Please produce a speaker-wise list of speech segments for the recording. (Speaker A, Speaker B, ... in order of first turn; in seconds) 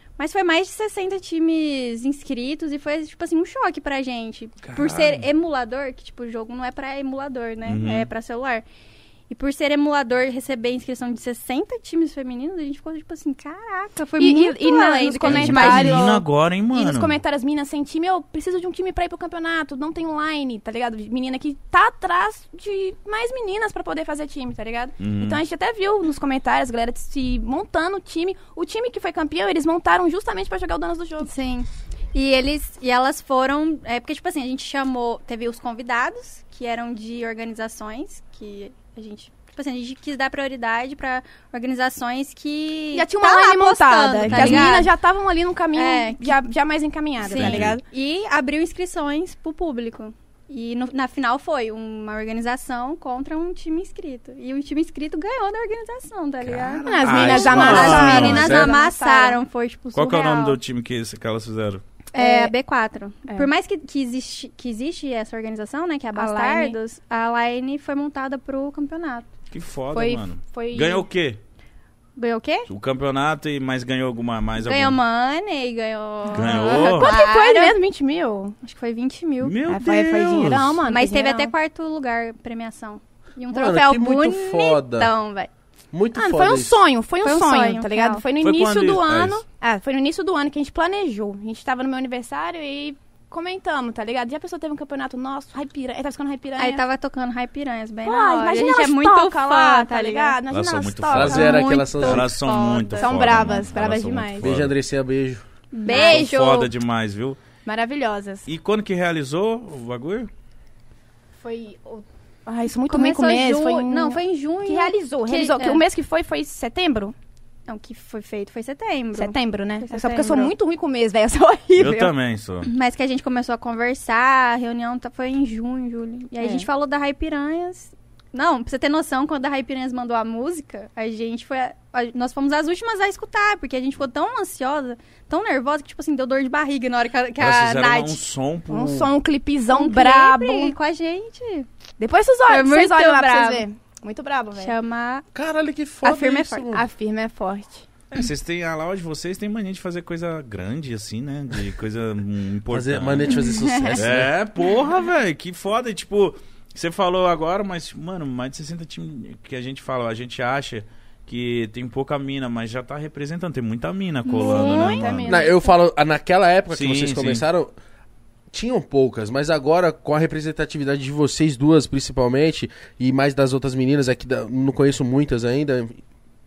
Speaker A: 0.2-8.6, 9.3-16.2, 31.2-44.9, 45.7-46.4, 47.2-60.6, 62.1-69.2, 72.2-72.7, 74.6-77.8, 78.6-79.6, 80.9-85.5, 87.2-88.2, 96.6-100.4, 101.3-103.6, 105.7-106.7, 112.8-115.8, 117.7-120.5, 122.6-138.2, 139.7-141.7, 142.5-143.6, 144.6-145.2, 146.0-146.7, 153.3-154.0, 164.2-165.1
Speaker B: 4.6-5.2, 7.6-8.1, 15.2-17.2, 25.0-25.4, 44.2-44.7, 47.3-47.7, 56.4-58.6, 59.9-61.8, 69.5-71.4, 72.7-75.0, 76.3-77.1, 79.4-80.8, 88.4-89.4, 100.5-104.7, 105.9-107.4, 108.5-110.3, 121.8-122.7, 137.4-139.1, 148.1-153.4, 153.9-165.5, 166.7-167.4
Speaker C: 14.2-31.3, 42.9-47.8, 56.9-59.4, 62.1-62.5, 66.1-66.8, 69.9-71.1, 76.3-78.5, 79.7-81.5, 86.1-96.8, 98.0-101.8, 103.0-104.5, 105.9-106.2, 107.7-108.5, 111.4-117.1, 119.1-122.1, 126.4-126.7, 138.7-140.7, 142.0-144.7, 146.7-147.8, 164.3-165.7
Speaker D: 57.0-58.7, 83.5-85.1, 85.9-86.8, 101.1-102.3, 104.4-105.4, 145.3-146.8, 152.7-154.3, 165.2-167.7, 168.5-176.0